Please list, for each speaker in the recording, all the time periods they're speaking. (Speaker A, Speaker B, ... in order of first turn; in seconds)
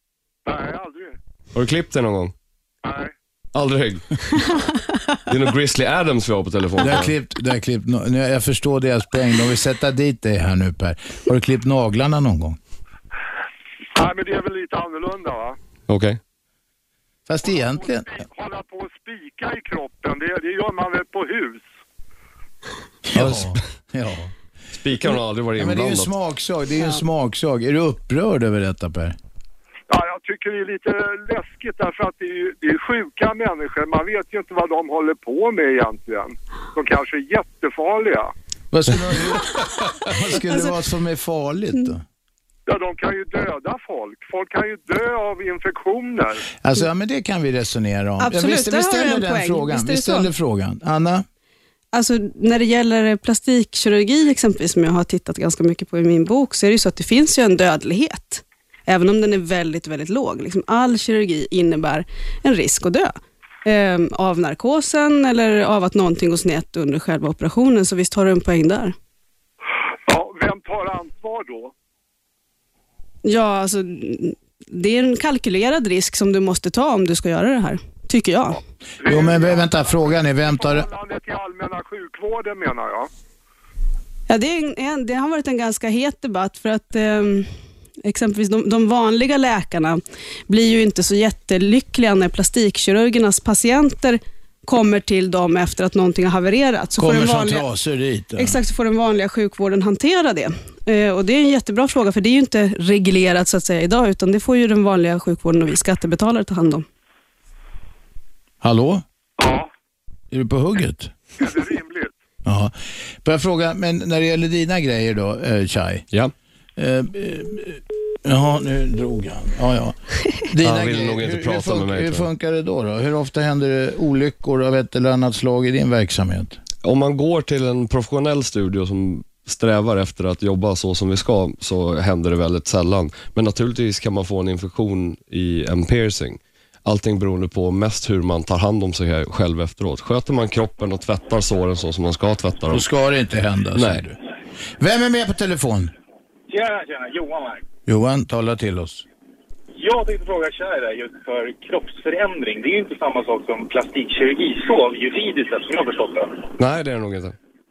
Speaker A: 0.5-1.2, 2.8-3.1, 13.9-15.6, 17.5-21.7, 29.9-38.3, 42.7-46.4, 70.1-71.7, 79.0-83.1, 109.4-109.7, 111.4-112.1
Speaker B: 1.6-2.3, 3.5-4.4, 5.3-7.1, 15.9-16.2, 23.1-23.6, 24.8-26.1, 120.6-122.2, 126.8-142.8, 143.8-144.0, 156.6-157.3
Speaker C: 6.8-12.6, 17.3-18.2, 23.1-24.3, 25.6-29.2, 38.7-42.0, 46.6-51.2, 79.0-80.9, 97.0-98.6, 108.6-109.0, 110.3-111.1, 112.5-116.0, 116.8-126.6, 142.7-144.2, 144.8-145.9, 147.9-149.1
Speaker D: 48.2-50.3, 51.9-69.0, 73.2-78.6, 84.3-87.5, 88.0-97.7, 98.4-106.8
Speaker E: 146.5-147.6, 149.8-156.4